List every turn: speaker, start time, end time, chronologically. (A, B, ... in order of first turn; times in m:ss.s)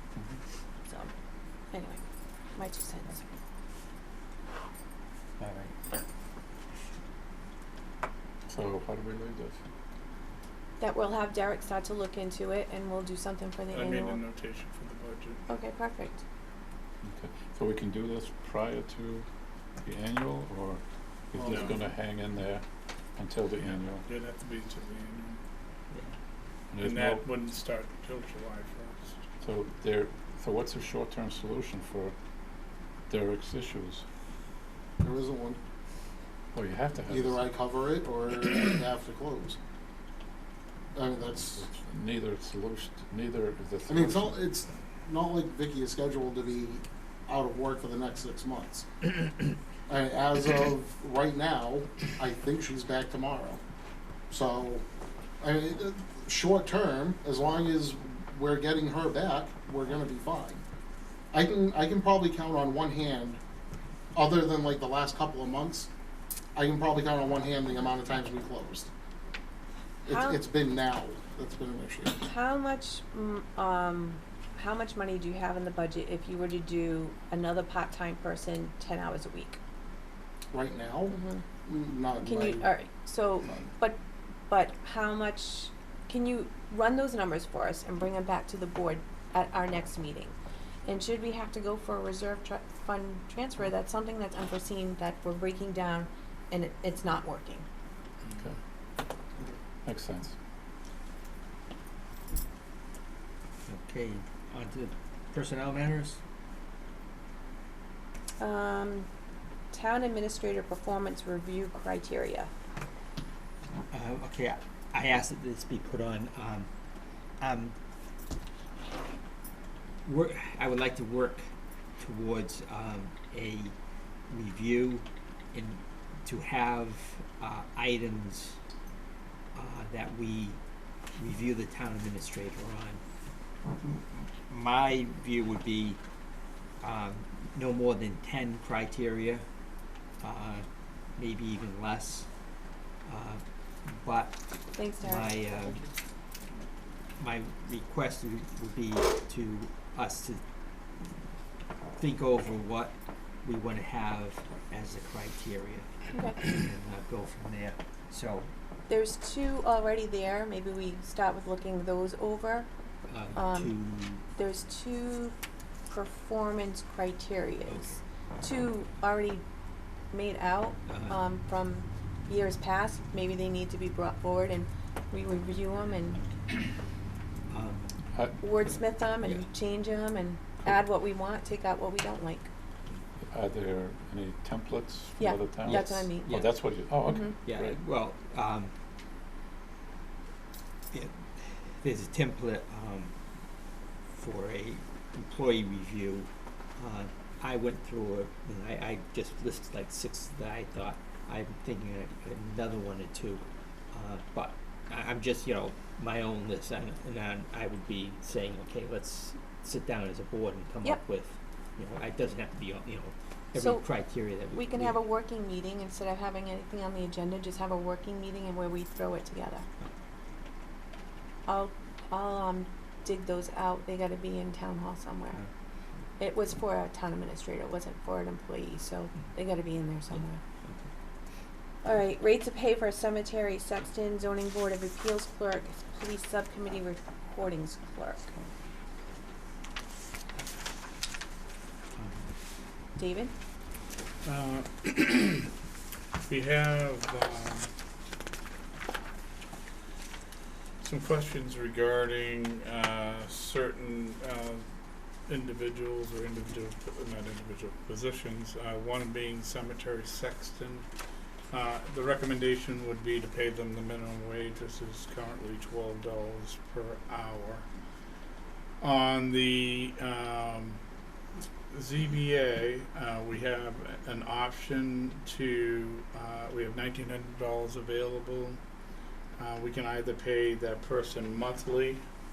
0:00.9-0:01.1 A
0:01.7-0:02.0 A
0:02.5-0:03.3 A
0:05.4-0:05.9 B
0:08.5-0:09.6 C
0:10.8-0:14.2 A
0:13.7-0:15.4 D
0:15.5-0:16.2 A
0:17.0-0:19.3 C
0:19.8-0:22.6 C
0:21.3-0:21.8 E
0:21.5-0:21.7 D
0:23.2-0:24.0 C
0:23.6-0:25.4 D
0:26.7-0:27.2 C
0:26.8-0:29.2 D
0:29.4-0:32.2 C
0:33.1-0:34.0 C
0:35.0-0:35.6 E
0:36.5-0:37.5 C
0:37.1-0:39.6 E
0:41.0-0:41.6 E
0:41.6-0:44.4 C
0:43.9-0:48.9 E
0:49.9-0:53.6 E
0:54.3-0:54.8 E
0:55.4-1:00.6 E
1:01.3-1:03.4 E
1:04.1-1:05.9 E
1:06.6-1:08.9 E
1:10.0-1:12.2 E
1:10.1-1:10.4 A
1:12.2-1:19.6 A
1:20.5-1:22.7 E
1:21.1-1:21.4 A
1:22.2-1:30.3 A
1:30.9-1:37.7 A
1:39.8-1:40.3 C
1:43.7-1:46.2 B
1:48.4-1:49.1 A
1:49.7-1:52.5 A
1:53.9-1:56.7 B
1:57.4-1:57.8 B
2:00.0-2:03.7 B
2:04.3-2:08.6 B
2:09.5-2:10.6 B
2:11.2-2:13.0 B
2:13.9-2:16.0 B
2:16.8-2:19.4 B
2:20.2-2:22.3 B
2:23.0-2:24.4 B
2:24.7-2:25.3 A
2:25.0-2:25.8 B
2:27.2-2:30.4 B
2:32.0-2:38.5 B
2:36.1-2:36.4 A
2:38.9-2:42.7 A
2:43.1-2:44.2 B
2:43.3-2:43.7 A
2:44.3-2:45.3 A
2:45.9-2:49.4 A
2:47.7-2:48.0 B
2:50.1-2:56.2 A
2:50.9-2:51.2 B
2:57.5-2:57.9 B
2:58.1-2:58.4 C
2:58.4-3:02.5 A
2:59.2-2:59.5 B
3:03.3-3:07.8 C
3:05.2-3:06.3 A
3:05.6-3:06.6 B
3:07.0-3:07.3 A
3:07.3-3:08.7 B
3:10.9-3:13.1 B
3:14.1-3:35.0 B
3:33.5-3:33.8 A
3:34.5-3:39.6 A
3:41.5-3:45.4 A
3:46.2-3:50.4 A
3:50.1-3:50.9 B
3:51.8-3:58.3 A
4:02.0-4:02.2 B
4:03.0-4:03.3 A
4:04.2-4:05.5 D
4:06.3-4:07.7 D
4:10.8-4:14.6 D
4:15.3-4:20.9 D
4:21.5-4:27.6 D
4:28.8-4:30.8 D
4:31.7-4:38.6 D
4:39.4-4:42.0 D